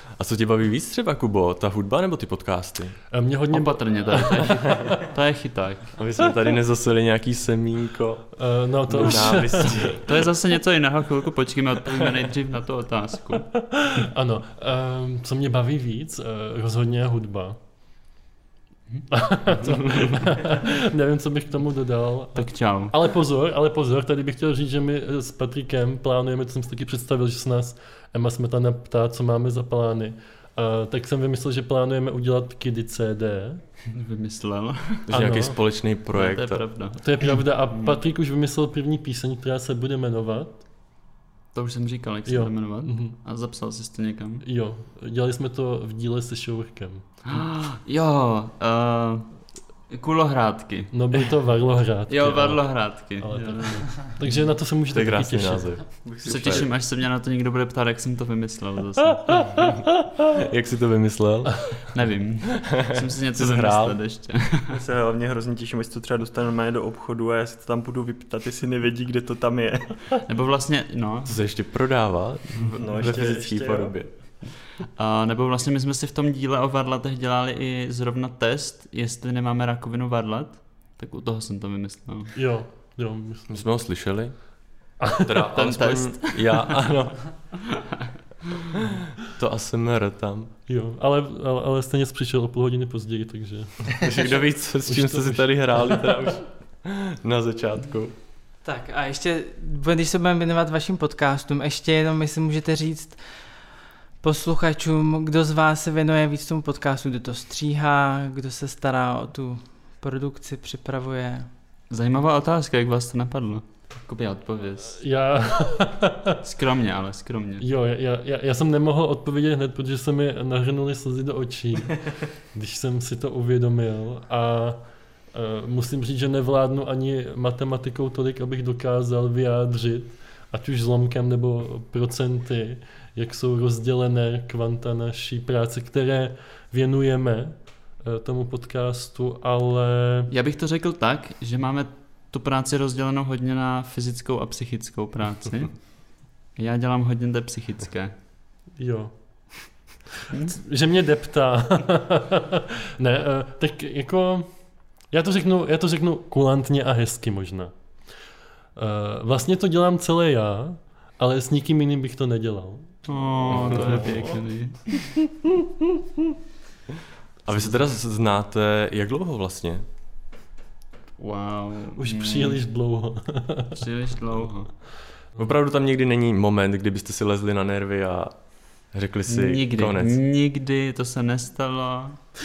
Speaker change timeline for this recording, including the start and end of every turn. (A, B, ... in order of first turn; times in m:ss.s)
0:00.2-0:03.0 A
0:03.1-0:05.1 B
0:03.5-0:06.0 C
0:06.0-0:08.3 A
0:08.4-0:10.0 B
0:08.9-0:10.0 A
0:10.0-0:13.5 C
0:13.6-0:17.6 B
0:19.1-0:33.6 B
0:22.4-0:23.0 C
0:33.9-0:35.1 C
0:35.1-0:36.7 A
0:35.1-0:35.6 B
0:36.1-0:38.0 C
0:37.0-0:40.6 B
0:41.5-0:44.4 C
0:42.3-0:43.2 B
0:44.4-0:47.4 B
0:47.2-0:49.3 C
0:49.9-0:50.9 C
0:50.9-0:55.9 B
0:52.1-0:54.3 C
0:54.9-0:56.7 A
0:56.0-0:56.7 D
0:56.2-0:59.6 C
0:59.3-0:59.9 B
1:00.3-1:01.7 A
1:01.9-1:04.8 C
1:02.6-1:04.0 A
1:04.7-1:10.1 D
1:10.2-1:11.4 C
1:11.3-1:14.1 A
1:12.7-1:13.9 D
1:14.4-1:22.3 C
1:22.4-1:23.6 B
1:23.5-1:24.4 A
1:25.0-1:25.3 B
1:25.1-1:27.2 A
1:25.5-1:26.8 C
1:27.6-1:28.0 C
1:28.7-1:30.5 A
1:30.7-1:34.1 B
1:34.0-1:38.1 A
1:34.8-1:36.0 B
1:38.6-1:43.2 E
1:44.2-1:51.5 E
1:51.9-1:55.0 C
1:54.9-1:56.4 B
1:56.4-1:57.7 C
1:57.6-2:04.8 B
2:05.3-2:20.3 B
2:20.3-2:25.8 C
2:26.6-2:28.1 C
2:28.8-2:29.7 B
2:30.3-2:34.5 B
2:35.1-2:37.7 B
2:38.8-2:44.4 B
2:43.1-2:45.1 C
2:45.0-2:46.0 B
2:47.5-2:49.8 A
2:51.2-2:52.6 C
2:52.0-2:53.8 B
2:53.8-2:54.7 C
2:55.4-2:58.3 A
2:58.9-3:00.2 A
2:59.3-3:02.2 C